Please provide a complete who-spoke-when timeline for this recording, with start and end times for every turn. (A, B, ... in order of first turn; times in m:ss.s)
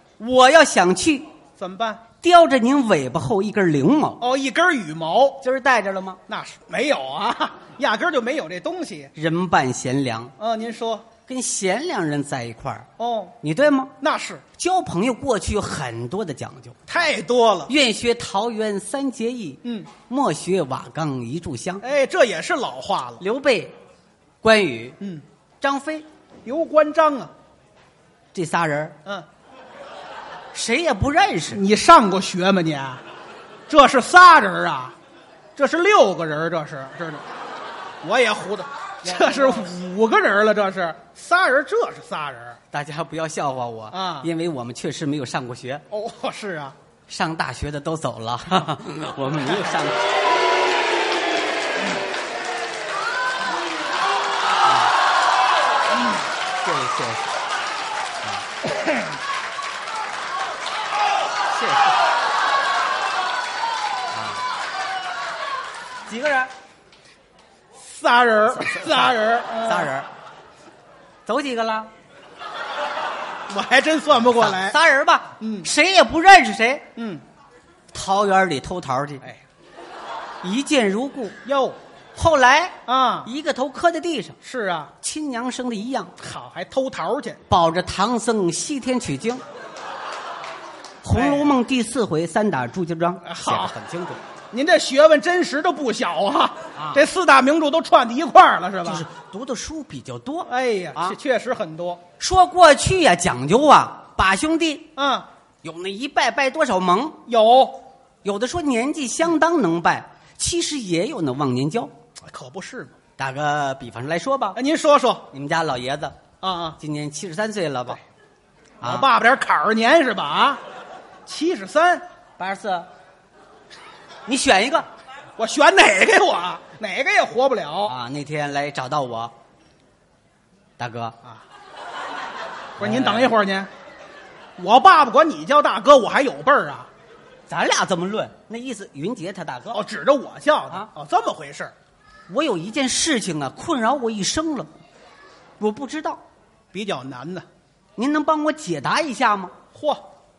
0:00.2-0:01.3 A
0:01.6-0:02.0 B
0:02.2-0:04.2 A
0:04.2-0:05.4 B
0:05.4-0:06.2 A
0:06.3-0:09.1 B
0:09.1-0:10.3 A
0:10.4-0:11.1 B
0:11.2-0:12.9 A
0:13.0-0:13.4 B
0:13.4-0:13.9 A
0:14.0-0:14.4 B
0:14.6-0:16.8 A
0:16.9-0:17.7 B
0:17.7-0:21.8 A
0:19.6-0:19.9 B
0:21.8-0:23.2 B
0:23.2-0:23.7 A
0:24.4-0:25.0 A
0:25.6-0:26.0 A
0:26.4-0:27.3 B
0:28.3-0:29.0 A
0:30.5-0:31.6 A
0:31.5-0:33.0 B
0:33.7-0:34.9 B
0:35.6-0:37.2 B
0:38.0-0:42.6 B
0:39.0-0:39.7 A
0:42.7-0:45.8 A
0:43.9-0:44.3 B
0:45.9-0:46.8 B
0:47.1-0:50.1 A
0:54.6-0:54.9 A
0:56.6-0:57.4 A
1:01.5-1:01.9 A
1:04.1-1:04.4 A
1:06.1-1:06.5 A
1:07.8-1:09.9 B
1:08.6-1:09.1 A
1:09.6-1:10.1 A
1:11.2-1:11.9 A
1:13.5-1:14.8 B
1:14.3-1:16.8 A
1:15.4-1:15.7 B
1:17.0-1:17.2 B
1:17.9-1:19.2 A
1:20.4-1:21.4 A
1:21.4-1:21.8 B
1:22.2-1:24.4 A
1:22.9-1:23.3 B
1:24.4-1:24.9 B
1:25.0-1:26.1 A
1:26.2-1:27.4 B
1:27.5-1:29.4 A
1:31.0-1:34.2 A
1:31.1-1:31.6 B
1:33.2-1:33.7 B
1:34.5-1:39.0 B
1:36.8-1:37.0 A
1:38.8-1:41.1 A
1:40.5-1:42.0 B
1:42.2-1:44.9 A
1:45.0-1:45.3 B
1:45.6-1:47.2 A
1:47.2-1:47.8 B
1:48.2-1:51.9 A
1:52.2-1:52.9 B
1:53.2-1:54.6 A
1:54.6-1:55.3 B
1:55.3-1:56.2 A
1:56.4-1:56.8 B
1:56.8-1:58.0 A
1:58.8-1:59.1 A
1:58.8-2:00.6 B
2:01.3-2:02.0 B
2:02.4-2:02.9 A
2:04.2-2:04.9 A
2:05.4-2:07.9 B
2:07.8-2:09.3 A
2:10.8-2:11.2 A
2:12.8-2:13.3 A
2:12.8-2:13.7 B
2:14.6-2:16.9 B
2:17.5-2:19.8 A
2:19.7-2:21.7 B
2:22.3-2:24.7 A
2:25.6-2:26.2 A
2:26.7-2:27.4 B
2:28.0-2:29.6 A
2:29.7-2:30.1 B